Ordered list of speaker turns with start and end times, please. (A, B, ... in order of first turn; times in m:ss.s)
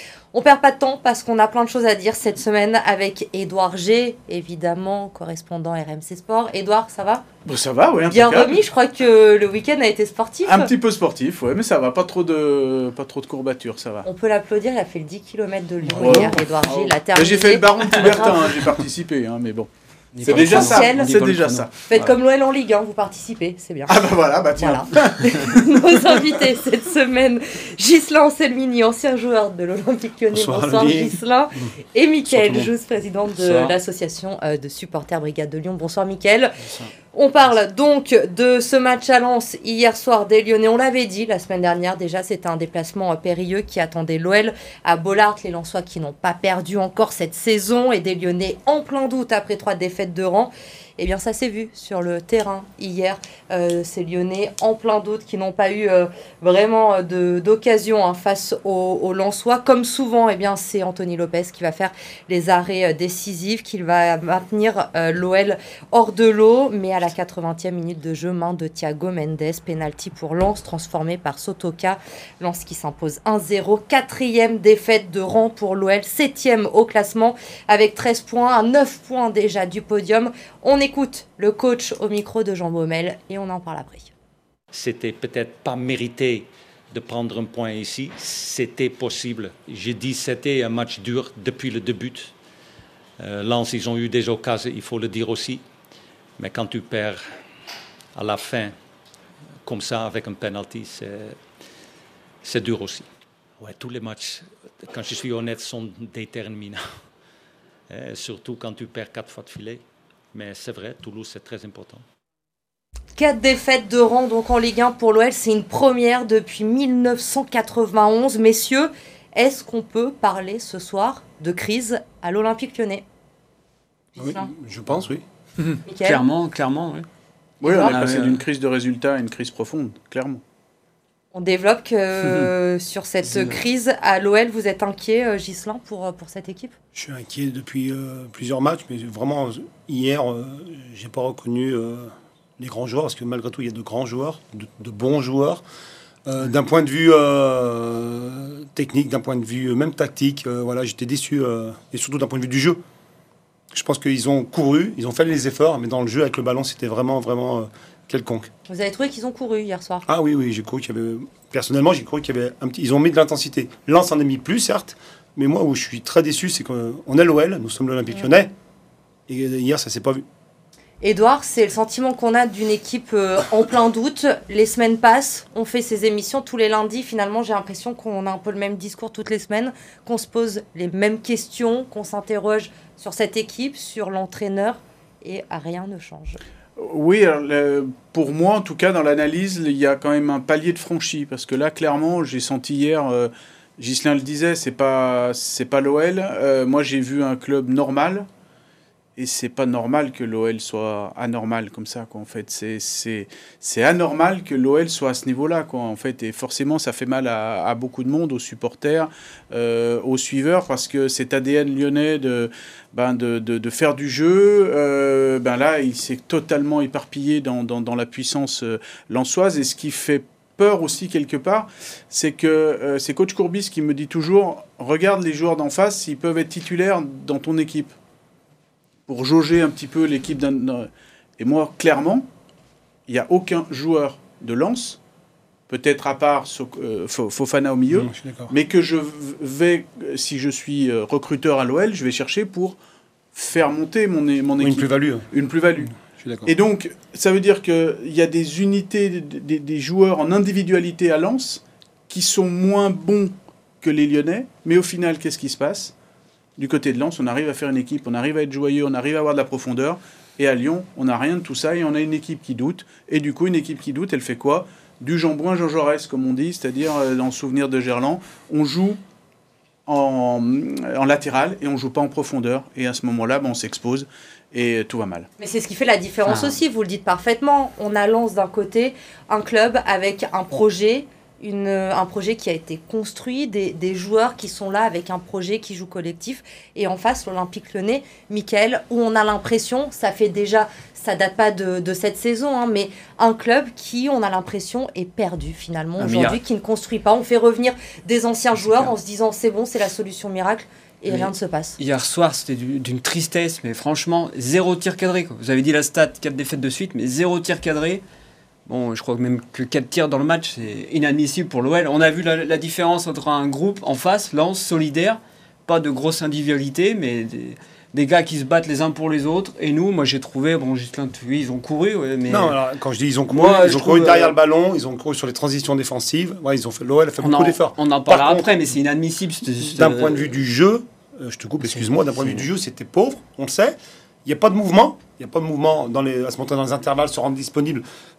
0:00.3-0:07.2 A
0:07.4-0:08.6 B
0:08.1-0:10.7 A
0:10.4-0:14.0 B
0:14.0-0:18.3 A
0:16.0-0:19.7 B
0:20.1-0:22.1 C
0:20.2-0:21.7 B
0:20.3-0:21.1 A
0:21.9-0:24.0 A
0:23.9-0:25.8 B
0:24.6-0:36.6 A
0:30.3-0:31.7 D
0:32.3-0:32.7 D
0:33.4-0:33.7 C
0:36.6-0:36.9 C
0:37.1-1:24.1 A
1:24.7-1:32.3 E
1:33.2-1:35.6 E
1:36.4-1:37.4 E
1:38.1-1:38.7 E
1:39.6-1:41.4 E
1:42.4-1:43.1 E
1:43.6-1:46.8 E
1:47.9-1:49.8 E
1:50.3-1:52.0 E
1:53.2-2:03.0 A
2:04.1-2:04.5 A
2:04.2-2:05.2 D
2:05.8-2:06.2 A
2:06.0-2:07.0 C
2:07.6-2:10.4 B
2:07.6-2:08.0 A
2:07.9-2:08.4 C
2:11.3-2:16.7 A
2:16.9-2:25.6 D
2:26.2-2:32.8 D
2:33.7-2:38.5 D
2:38.7-2:40.0 A
2:40.0-2:48.5 D
2:49.3-2:50.2 D
2:51.0-3:06.4 A
3:06.8-3:18.3 B
3:19.2-3:47.9 B
3:49.1-3:52.3 B
3:53.1-3:55.0 B
3:55.7-4:02.8 B
3:57.9-3:58.5 D
4:03.3-4:05.9 B
4:04.6-4:05.3 D
4:05.8-4:06.5 D
4:06.4-4:15.9 B
4:16.6-4:29.0 B
4:29.9-4:35.3 B
4:35.4-5:01.8 A
4:36.3-4:36.6 C
4:56.0-4:56.4 C
5:01.1-5:08.0 C
5:08.7-5:22.6 C
5:22.3-5:28.5 D
5:23.3-5:24.3 C
5:27.2-5:30.3 C
5:29.7-5:37.8 D
5:31.7-5:32.4 C